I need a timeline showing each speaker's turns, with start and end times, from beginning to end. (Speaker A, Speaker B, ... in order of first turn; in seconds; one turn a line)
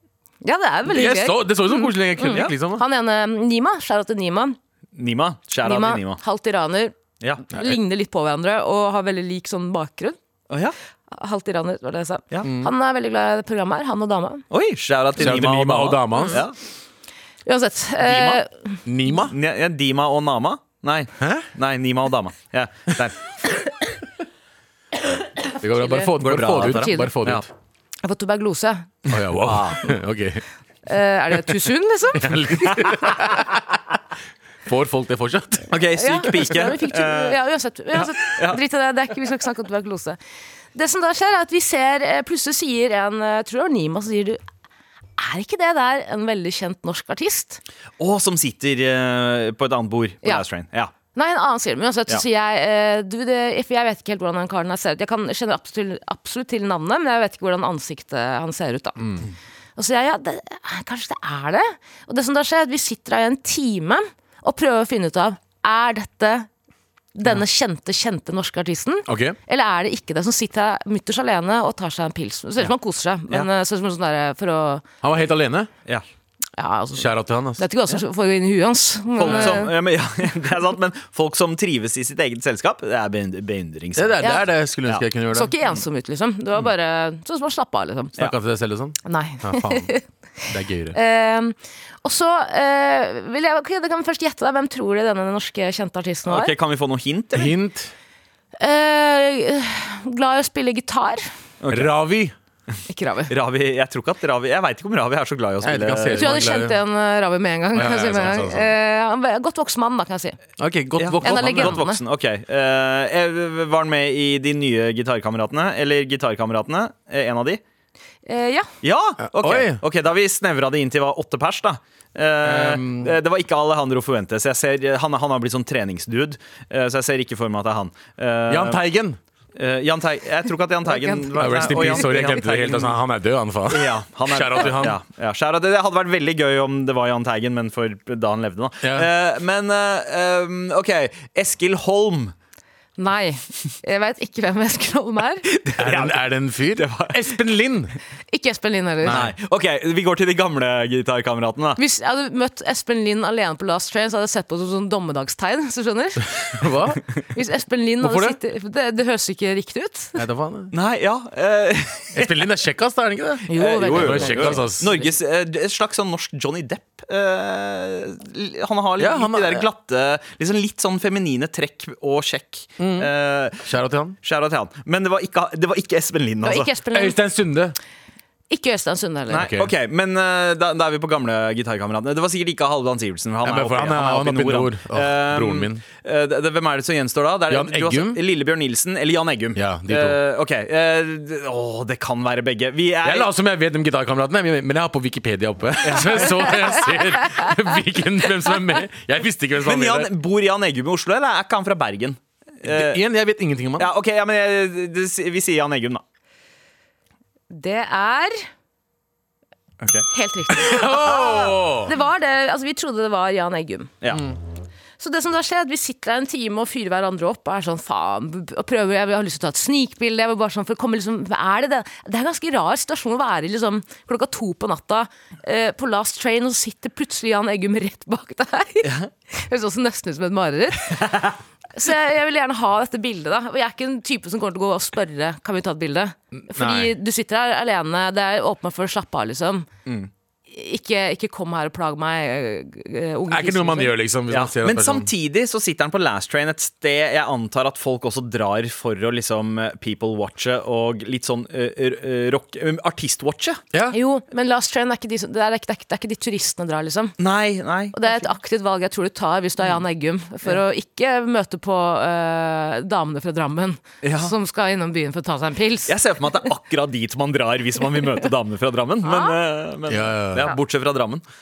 Speaker A: 0.4-4.6
Speaker B: 0.9-2.8
Speaker C: 5.0-6.2
Speaker A: 5.6-7.0
Speaker C: 7.2-7.5
Speaker A: 7.5-10.2
Speaker C: 10.5-10.8
Speaker A: 11.1-14.4
Speaker B: 12.4-12.7
Speaker C: 14.5-16.6
Speaker B: 15.2-16.4
Speaker A: 16.1-16.4
Speaker A: 17.5-18.8
Speaker B: 18.1-19.4
Speaker C: 19.2-23.2
Speaker B: 21.2-21.5
Speaker B: 25.5-27.5
Speaker A: 25.8-27.1
Speaker C: 26.2-27.5
Speaker A: 28.0-28.9
Speaker B: 29.1-30.4
Speaker C: 29.3-29.8
Speaker A: 30.9-33.3
Speaker B: 32.1-33.8
Speaker B: 34.7-35.8
Speaker C: 35.7-37.4
Speaker A: 36.0-40.2
Speaker C: 37.9-38.6
Speaker A: 40.8-44.4
Speaker A: 45.2-47.6
Speaker C: 48.0-50.9
Speaker A: 51.1-59.0
Speaker B: 59.0-59.2
Speaker A: 59.8-66.5
Speaker A: 67.2-74.8
Speaker B: 69.1-69.4
Speaker B: 75.0-75.7
Speaker A: 76.6-79.7
Speaker B: 77.0-77.6
Speaker C: 79.2-84.3
Speaker B: 79.3-79.5
Speaker B: 84.0-85.5
Speaker A: 85.3-88.2
Speaker B: 88.2-89.9
Speaker A: 89.0-90.0
Speaker B: 90.5-91.0
Speaker A: 90.9-96.5
Speaker C: 96.3-97.5
Speaker B: 97.3-97.9
Speaker A: 98.6-101.2
Speaker C: 101.6-101.9
Speaker B: 101.7-102.3
Speaker A: 102.9-103.3
Speaker C: 103.3-106.5
Speaker B: 105.6-106.8
Speaker A: 106.2-110.4
Speaker B: 107.7-108.7
Speaker B: 110.6-111.8
Speaker C: 111.0-117.6
Speaker A: 111.2-112.0
Speaker A: 118.2-118.7
Speaker C: 118.8-128.8
Speaker B: 119.2-119.8
Speaker B: 122.4-123.2
Speaker B: 128.5-129.2
Speaker C: 129.6-133.0
Speaker A: 130.9-132.1
Speaker B: 131.3-135.0
Speaker C: 133.7-142.3
Speaker B: 138.8-139.1
Speaker A: 143.0-145.5
Speaker C: 145.5-147.4
Speaker B: 145.8-147.9
Speaker A: 148.3-149.2
Speaker B: 149.0-149.3
Speaker C: 149.1-151.8
Speaker A: 151.8-156.6
Speaker B: 156.4-157.0
Speaker A: 157.3-160.2
Speaker B: 158.0-158.4
Speaker B: 160.2-160.7
Speaker C: 160.7-162.5
Speaker B: 162.2-164.9
Speaker A: 163.5-165.1
Speaker C: 163.5-173.6
Speaker B: 169.0-169.7
Speaker B: 172.8-173.1
Speaker B: 173.6-174.2
Speaker C: 174.2-176.7
Speaker A: 176.4-177.2
Speaker B: 176.9-177.8
Speaker A: 178.5-179.5
Speaker C: 179.3-193.3
Speaker B: 179.3-179.7
Speaker B: 183.4-185.8
Speaker B: 187.5-188.2
Speaker B: 189.6-190.2
Speaker B: 193.0-200.1
Speaker C: 195.8-196.9
Speaker C: 199.6-203.0
Speaker B: 202.6-203.9
Speaker C: 203.8-206.0
Speaker A: 207.5-208.4
Speaker C: 209.8-210.1
Speaker A: 210.1-213.9
Speaker B: 210.5-211.9
Speaker A: 215.0-239.7
Speaker C: 228.8-229.1
Speaker C: 231.0-231.3
Speaker B: 236.3-236.9
Speaker A: 240.5-243.9
Speaker B: 243.3-245.1
Speaker C: 244.3-253.6
Speaker A: 253.9-257.1
Speaker C: 257.2-258.2
Speaker A: 257.9-266.0
Speaker C: 264.0-264.3
Speaker C: 265.9-271.2
Speaker A: 269.0-269.4
Speaker B: 269.9-270.5